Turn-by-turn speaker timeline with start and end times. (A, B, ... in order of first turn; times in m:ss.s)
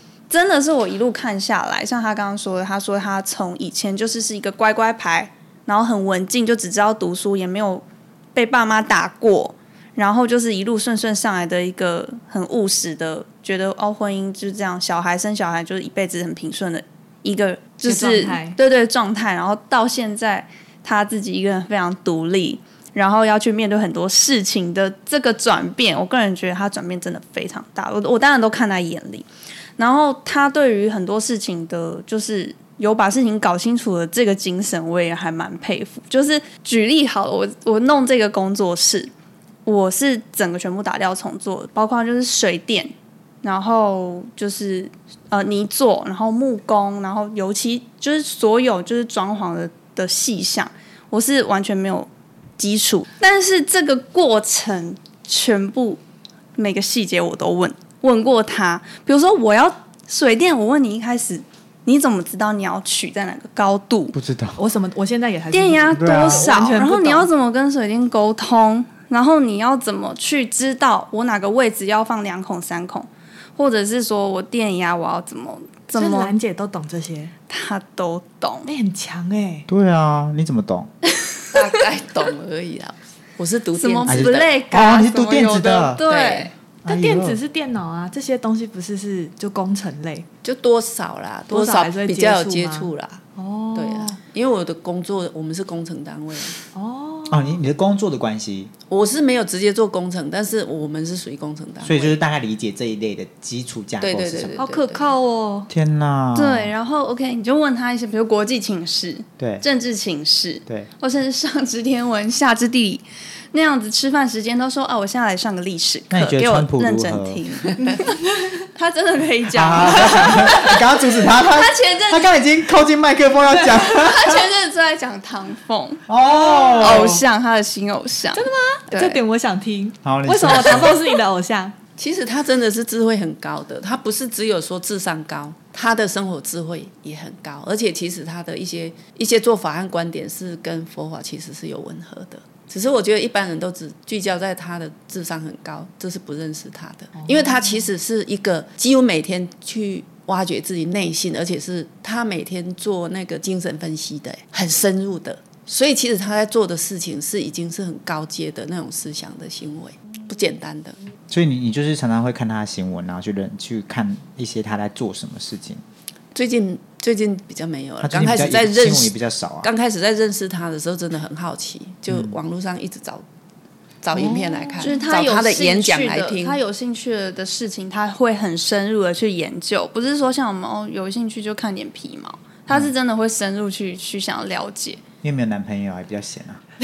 0:00.3-0:29.3 A
0:17.8-0:18.6 B
0:29.8-0:39.1 A
0:39.6-0:42.9 A
0:43.4-0:56.0 A
0:56.6-1:04.2 A
1:04.1-1:04.6 C
1:04.6-1:07.3 B
1:05.5-1:16.3 A
1:05.9-1:06.6 C
1:16.0-1:17.3 B
1:17.5-1:18.7 A
1:18.7-1:19.7 B
1:19.7-1:20.9 C
1:21.5-1:24.5 D
1:23.8-1:26.5 A
1:24.1-1:26.0 C
1:26.1-1:26.5 D
1:26.8-1:27.4 C
1:26.9-1:30.3 B
1:30.4-1:33.2 D
1:31.5-1:34.2 B
1:33.8-1:36.6 D
1:36.7-1:37.6 B
1:37.3-1:38.7 C
1:38.9-1:42.2 D
1:41.8-1:44.6 C
1:44.0-1:45.1 D
1:44.6-1:45.7 B
1:45.7-1:46.7 C
1:46.4-1:58.1 A
1:49.4-1:49.6 C
1:56.1-1:57.4 C
1:58.7-2:02.3 A
1:59.5-2:04.5 C
2:03.8-2:06.0 A
2:06.1-2:07.2 C
2:06.5-2:07.2 B
2:06.7-2:09.2 A
2:08.4-2:11.8 B
2:10.0-2:11.0 C
2:12.0-2:41.0 D
2:27.2-2:27.8 B
2:41.3-2:45.8 C
2:46.3-2:53.2 D
2:48.0-2:49.7 C
2:52.1-2:52.4 C
2:54.0-2:56.6 D
2:54.8-3:05.0 A
3:05.2-3:06.6 C